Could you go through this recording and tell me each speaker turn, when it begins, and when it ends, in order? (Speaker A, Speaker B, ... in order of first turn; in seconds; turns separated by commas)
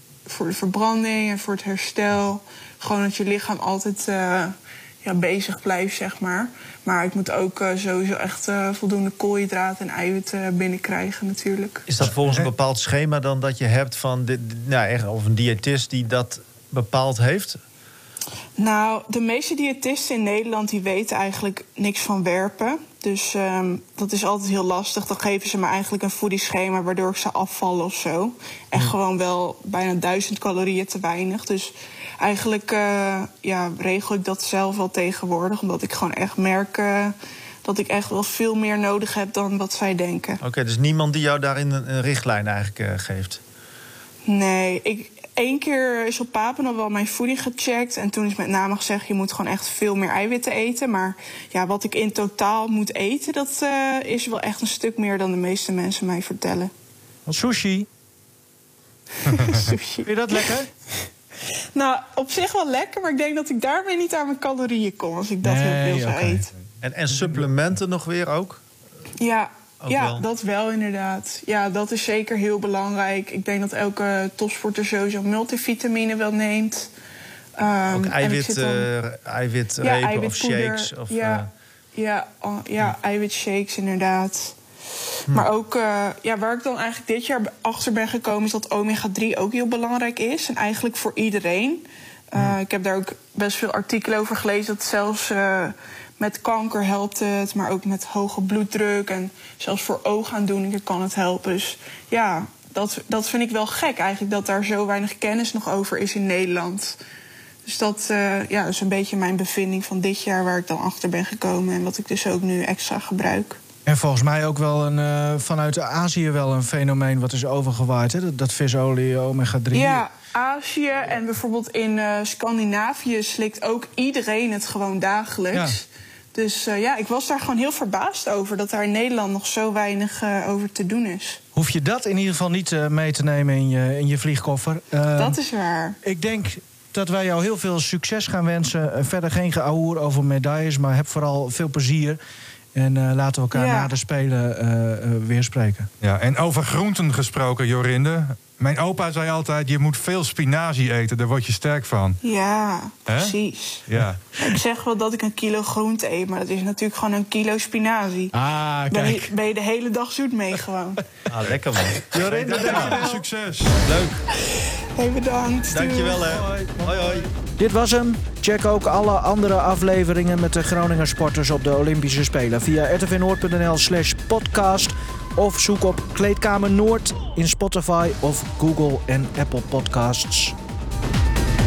Speaker A: 0.3-11.9, Speaker B: 11.9-17.6, Speaker C: 12.0-12.5, Speaker A: 18.6-40.4, Speaker B: 40.4-43.4, Speaker A: 44.2-56.7, Speaker D: 57.3-57.9, Speaker A: 59.2-60.5, Speaker D: 60.0-60.7, Speaker A: 61.8-66.5, Speaker D: 65.4-66.5, Speaker B: 66.8-68.6, Speaker A: 69.2-76.9, Speaker B: 69.8-70.2, Speaker A: 77.6-78.9, Speaker B: 77.9-81.5, Speaker A: 79.8-84.6, Speaker A: 85.3-107.0, Speaker A: 107.7-113.6, Speaker D: 113.9-120.0, Speaker A: 119.7-131.4, Speaker D: 131.6-135.4, Speaker A: 135.2-136.0, Speaker D: 136.0-142.2, Speaker D: 142.8-145.9, Speaker A: 143.5-143.9, Speaker C: 146.0-152.2, Speaker A: 152.2-158.3, Speaker C: 153.1-153.3, Speaker C: 153.9-154.2, Speaker D: 158.3-159.3, Speaker A: 158.9-161.0, Speaker B: 161.3-163.1, Speaker D: 162.1-163.2, Speaker C: 162.2-163.8, Speaker B: 163.8-164.2, Speaker A: 164.5-166.3, Speaker B: 165.7-167.3, Speaker D: 166.2-180.6